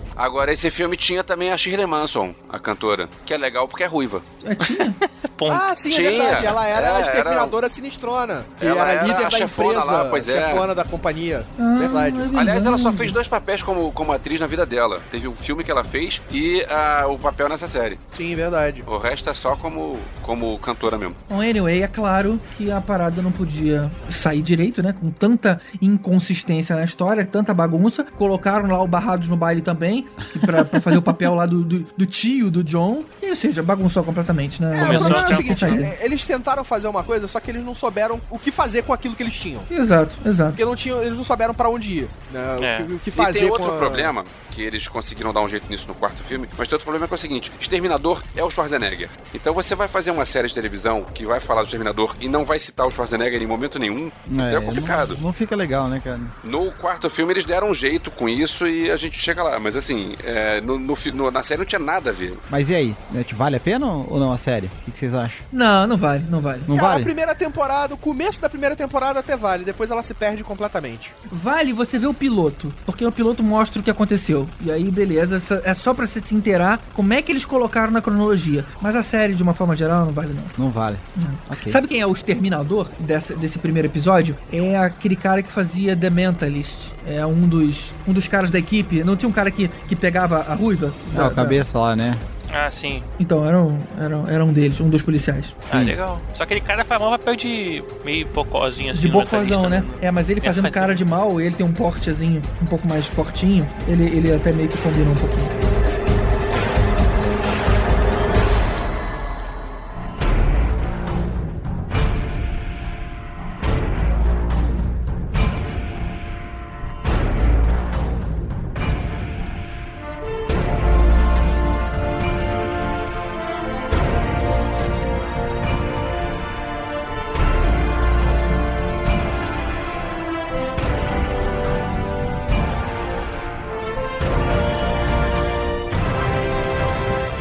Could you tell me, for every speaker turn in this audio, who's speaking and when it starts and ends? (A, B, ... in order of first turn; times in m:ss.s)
0:00.2-0:04.2 A
0:04.4-0:05.0 B
0:04.8-0:05.8 C
0:05.5-0:12.3 D
0:05.9-0:07.5 A
0:08.6-0:10.7 A
0:11.6-0:13.2 B
0:12.3-0:18.0 A
0:18.1-0:18.8 D
0:18.8-0:21.2 A
0:21.3-0:35.9 B
0:34.7-0:39.7 D
0:34.8-0:35.9 C
0:39.7-0:40.6 B
0:40.6-0:44.1 D
0:42.6-0:42.9 C
0:43.1-0:55.2 A
0:54.3-0:56.3 E
0:56.4-1:02.4 A
1:02.5-1:05.4 E
1:05.5-1:06.7 B
1:06.6-1:07.1 E
1:06.7-1:11.1 D
1:11.3-1:20.6 B
1:20.6-1:21.8 E
1:21.2-1:31.6 B
1:31.1-1:32.2 E
1:32.5-1:33.1 C
1:33.2-1:35.6 B
1:35.7-1:36.0 E
1:35.7-1:41.0 C
1:38.9-1:45.5 B